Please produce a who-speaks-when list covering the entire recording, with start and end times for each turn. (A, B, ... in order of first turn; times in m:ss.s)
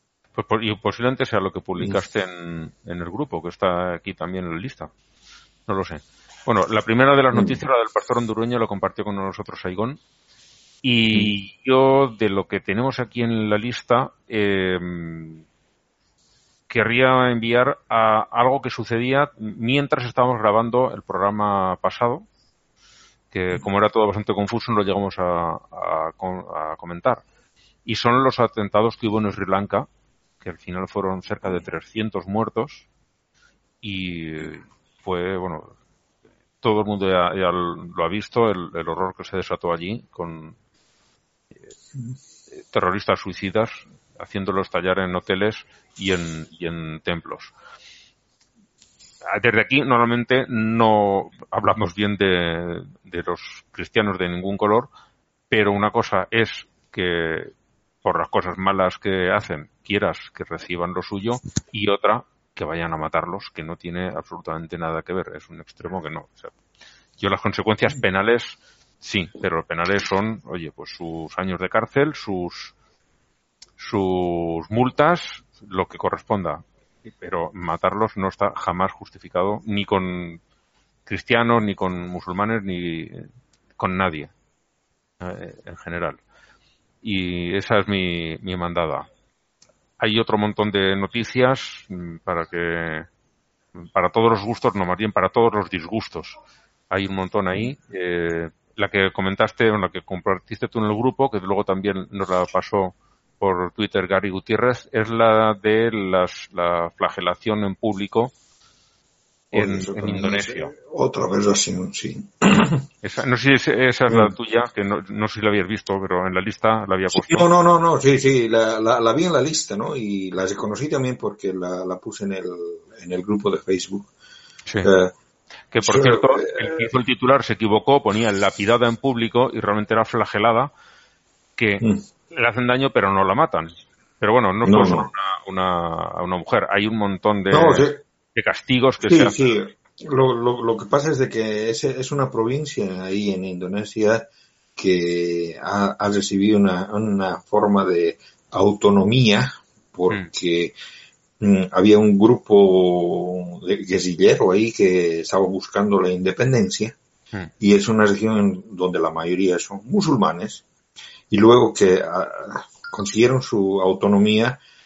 0:00.4-0:04.9 A
0:05.7-0:10.0 A
0:07.3-0:07.6 B
0:10.8-0:15.4 A
0:16.7-0:22.2 A
0:23.3-0:27.2 A
0:27.8-0:29.9 A
0:30.4-0:32.8 A
0:33.8-0:35.7 A
0:36.6-0:40.5 A
0:42.7-0:47.5 A
0:49.3-0:54.9 A
0:55.5-0:57.5 A
0:58.0-1:06.5 A
1:07.2-1:12.7 A
1:13.8-1:16.6 A
1:17.2-1:20.4 A
1:21.1-1:23.3 A
1:23.8-1:24.3 A
1:25.2-1:26.2 A
1:27.0-1:29.1 A
1:30.0-1:33.1 A
1:33.9-1:36.4 A
1:36.9-1:48.3 A
1:49.5-1:52.8 B
1:49.5-1:50.7 A
1:53.0-1:57.5 A
1:54.1-1:54.3 B
1:57.1-2:04.1 B
2:04.8-2:05.1 B
2:05.7-2:10.7 A
2:05.8-2:06.9 B
2:11.6-2:19.4 A
2:14.6-2:15.1 B
2:17.5-2:18.0 B
2:19.1-2:30.7 B
2:31.4-2:37.0 B
2:37.6-2:40.6 B
2:41.3-2:44.6 B